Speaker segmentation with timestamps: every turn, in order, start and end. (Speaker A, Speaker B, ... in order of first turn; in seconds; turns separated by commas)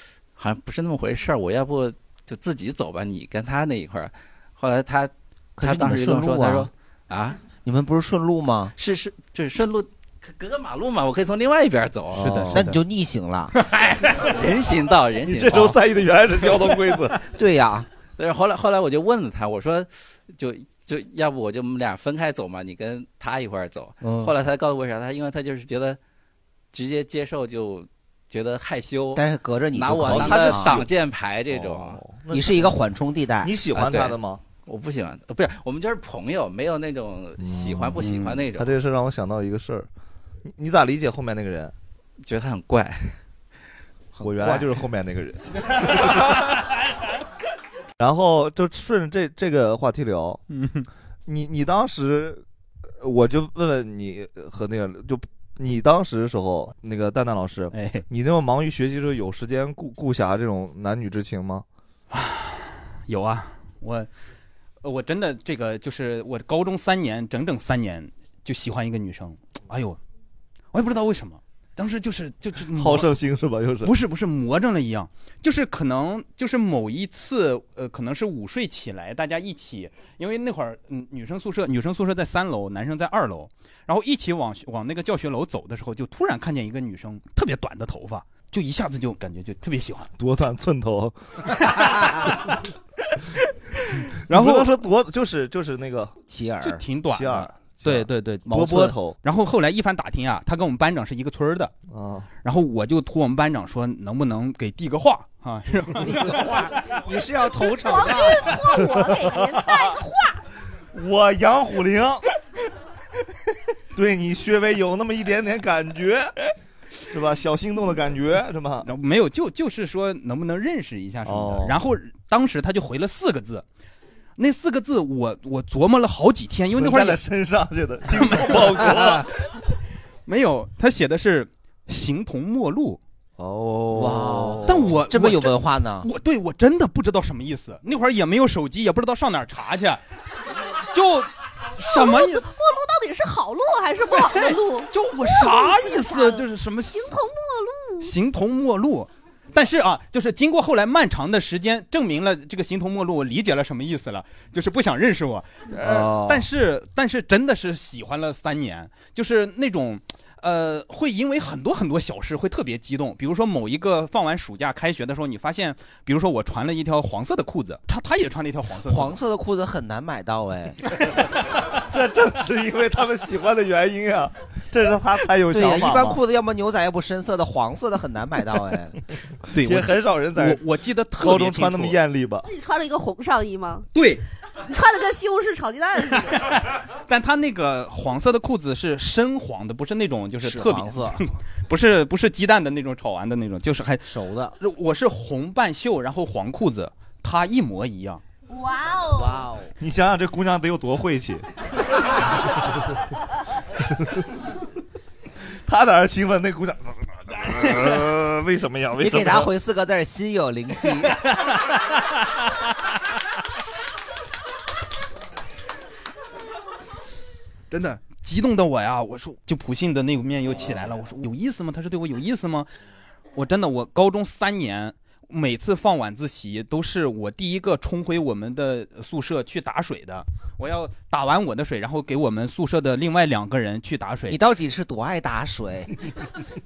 Speaker A: 0.4-7.4, Speaker B: 5.6-6.7, Speaker B: 7.5-8.7, Speaker A: 8.8-12.3, Speaker C: 12.1-12.6, Speaker D: 12.2-12.8, Speaker B: 12.5-13.5, Speaker D: 13.6-14.2, Speaker A: 14.2-15.8, Speaker C: 15.2-17.2, Speaker B: 17.4-17.9, Speaker A: 18.2-26.0, Speaker B: 24.0-24.3, Speaker A: 26.7-32.0, Speaker B: 29.1-30.8, Speaker C: 30.0-30.9, Speaker C: 31.5-32.8, Speaker B: 32.3-33.5, Speaker C: 33.4-34.4, Speaker A: 33.7-38.7, Speaker C: 37.4-39.9, Speaker C: 40.5-41.7, Speaker A: 42.2-43.2, Speaker A: 44.1-44.6, Speaker C: 44.2-46.2, Speaker C: 48.0-50.4, Speaker D: 50.5-50.9, Speaker C: 51.3-52.4, Speaker C: 53.0-61.7, Speaker D: 57.7-58.0, Speaker D: 62.1-64.1, Speaker D: 64.8-70.0, Speaker D: 70.7-73.1, Speaker C: 72.7-73.9, Speaker D: 73.8-90.1, Speaker C: 90.2-91.2, Speaker D: 91.6-92.6, Speaker D: 94.0-94.7, Speaker C: 94.3-96.2, Speaker B: 96.3-96.8, Speaker D: 96.6-98.7, Speaker C: 97.1-99.2, Speaker B: 98.5-99.0, Speaker D: 99.2-101.7, Speaker C: 101.9-102.3, Speaker D: 102.4-106.5, Speaker B: 106.0-108.5, Speaker E: 107.6-110.4, Speaker C: 108.8-109.9, Speaker C: 110.9-112.2, Speaker C: 113.9-116.3, Speaker C: 117.1-118.9, Speaker D: 118.8-123.7, Speaker C: 121.2-121.8, Speaker D: 124.4-127.2, Speaker C: 126.7-129.3, Speaker D: 128.1-128.7, Speaker D: 130.3-133.0, Speaker C: 133.4-134.9, Speaker B: 133.9-136.1, Speaker D: 134.7-140.0, Speaker D: 140.9-142.4, Speaker E: 141.9-148.1, Speaker D: 144.1-147.2, Speaker D: 148.0-169.2, Speaker C: 155.7-156.5, Speaker B: 168.9-170.8, Speaker C: 171.7-176.2, Speaker B: 175.5-179.0, Speaker D: 179.5-182.0, Speaker C: 179.6-180.6, Speaker C: 181.1-182.5, Speaker E: 182.4-183.9, Speaker D: 183.9-184.2, Speaker E: 184.7-186.5, Speaker D: 186.4-198.2, Speaker B: 190.4-191.2, Speaker B: 194.1-194.6, Speaker E: 198.5-199.4, Speaker B: 199.2-199.7, Speaker C: 199.8-202.0, Speaker C: 205.7-209.5, Speaker B: 209.0-211.2, Speaker D: 217.7-222.7, Speaker D: 223.3-234.4, Speaker B: 234.3-235.9